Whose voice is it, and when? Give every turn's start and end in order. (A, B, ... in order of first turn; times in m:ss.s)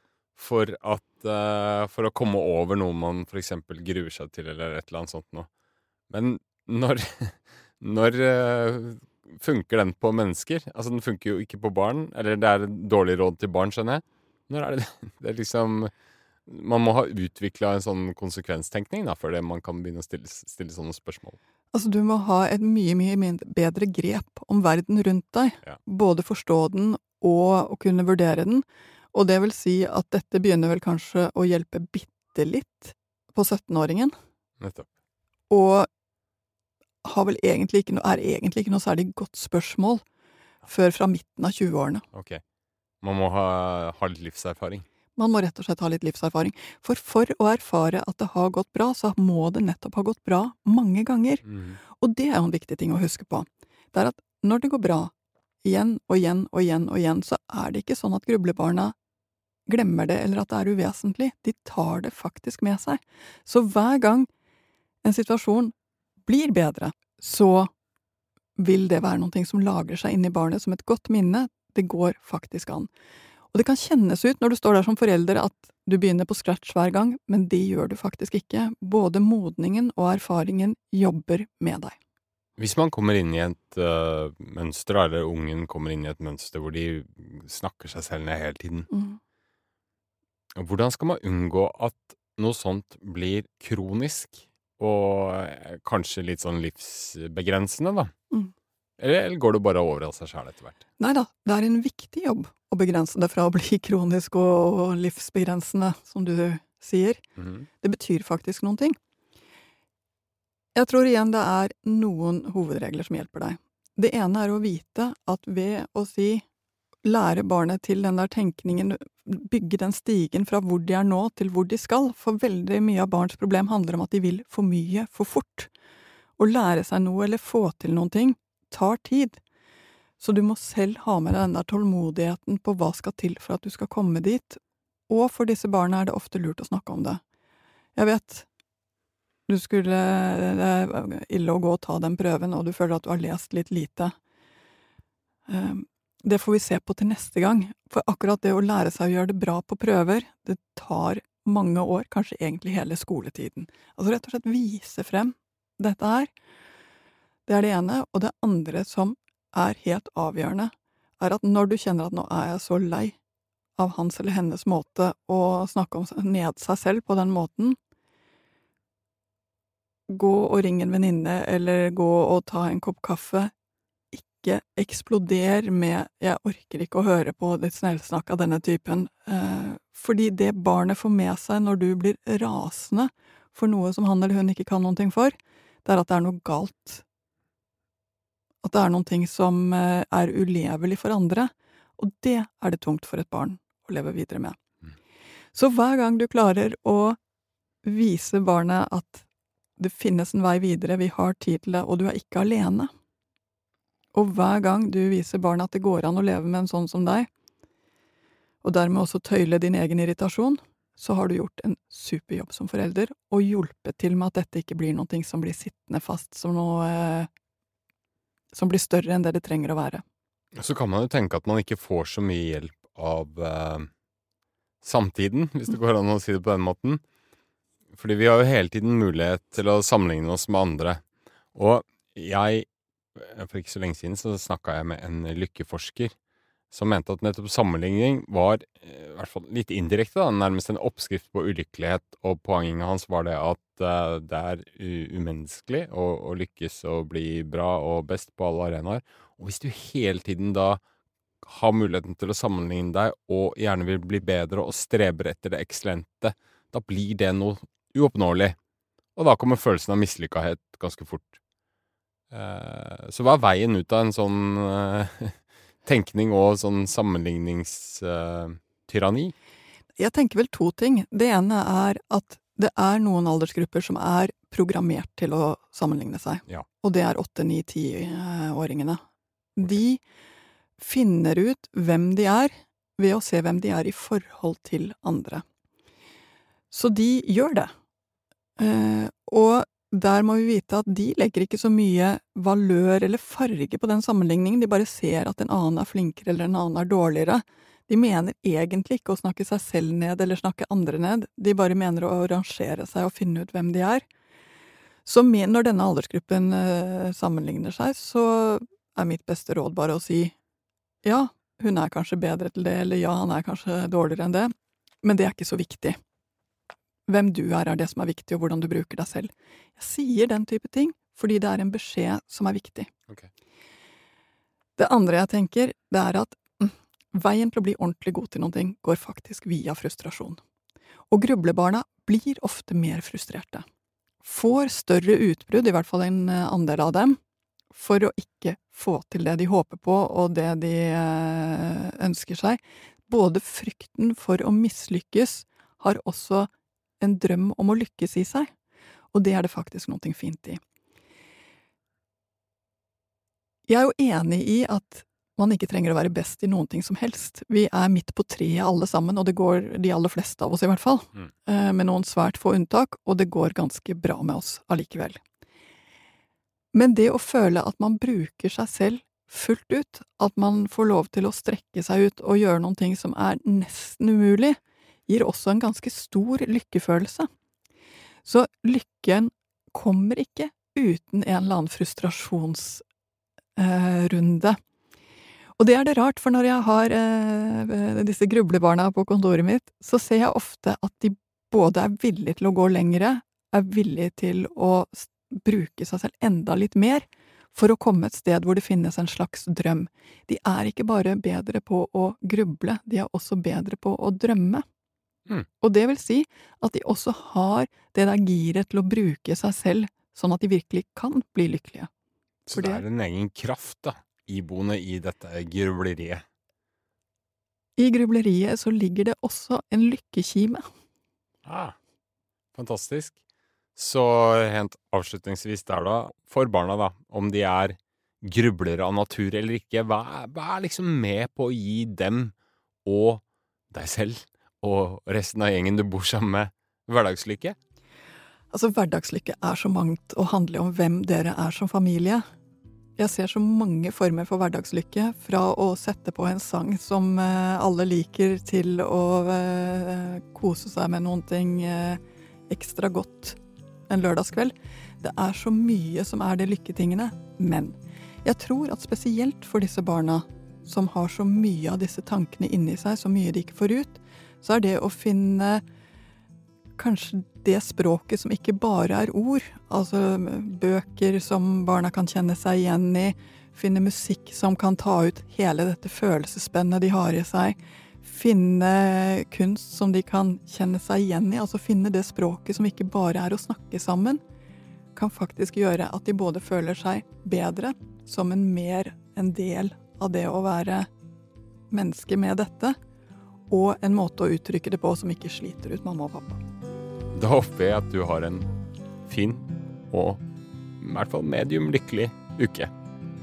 0:00.4-0:05.5 A
0:06.1-0:15.9 A
0:16.5-0:21.4 A
0:21.7-0:34.1 B
0:34.6-0:34.9 A
0:35.5-0:35.9 B
0:37.0-0:40.0 B
0:40.7-0:42.0 B
0:42.1-0:42.4 A
0:43.0-0:44.8 A
0:45.2-0:55.1 B
0:51.4-0:51.8 A
0:55.6-0:59.0 B
0:59.7-1:04.3 B
1:05.0-1:05.8 B
1:06.3-1:07.7 B
1:08.6-1:12.9 B
1:13.5-1:22.0 B
1:22.6-1:28.9 A
1:28.9-1:29.2 B
1:30.6-1:38.1 A
1:39.0-1:40.8 A
1:41.0-1:47.2 B
1:47.4-1:47.7 A
1:47.8-1:49.0 B
1:50.8-1:56.4 B
1:57.0-2:05.7 B
2:06.4-2:09.4 B
2:10.2-2:17.2 B
2:18.0-2:18.5 B
2:19.5-2:24.1 B
2:25.5-2:36.3 B
2:37.5-2:43.2 B
2:43.8-2:47.8 B
2:50.1-2:53.5 B
2:54.2-3:07.0 B
3:08.6-3:14.6 B
3:15.5-3:17.2 B
3:17.8-3:19.3 B
3:19.8-3:22.9 B
3:24.1-3:27.3 B
3:28.6-3:37.3 B
3:38.5-3:40.0 B
3:40.6-3:43.9 A
3:44.8-3:47.0 A
3:47.9-3:51.0 A
3:51.5-3:56.2 A
3:56.7-4:10.8 A
4:11.4-4:18.6 A
4:19.2-4:21.4 A
4:22.3-4:29.3 A
4:30.0-4:39.0 B
4:39.6-4:40.0 B
4:40.8-4:45.4 B
4:46.7-4:47.7 B
4:48.6-5:04.1 B
5:05.0-5:10.4 B
5:11.0-5:14.5 B
5:15.0-5:16.0 B
5:17.1-5:22.9 B
5:24.8-5:30.4 B
5:31.1-5:33.6 B
5:34.2-5:37.2 B
5:37.7-5:46.5 B
5:47.0-5:48.5 B
5:49.1-5:50.6 B
5:53.7-6:05.2 B
6:06.7-6:17.3 B
6:18.3-6:22.8 B
6:23.6-6:24.6 B
6:25.6-6:44.6 B
6:45.6-6:51.9 B
6:52.5-6:56.2 A
6:52.5-6:52.8 B
6:57.8-7:00.6 B
7:01.5-7:01.8 A
7:02.5-7:03.2 A
7:03.8-7:12.3 A
7:12.8-7:17.6 A
7:18.5-7:22.2 B
7:23.0-7:45.6 B
7:46.8-8:04.2 B
8:05.0-8:10.9 B
8:11.7-8:12.8 B
8:13.5-8:16.4 B
8:17.1-8:18.5 A
8:19.1-8:20.2 A
8:20.8-8:22.7 A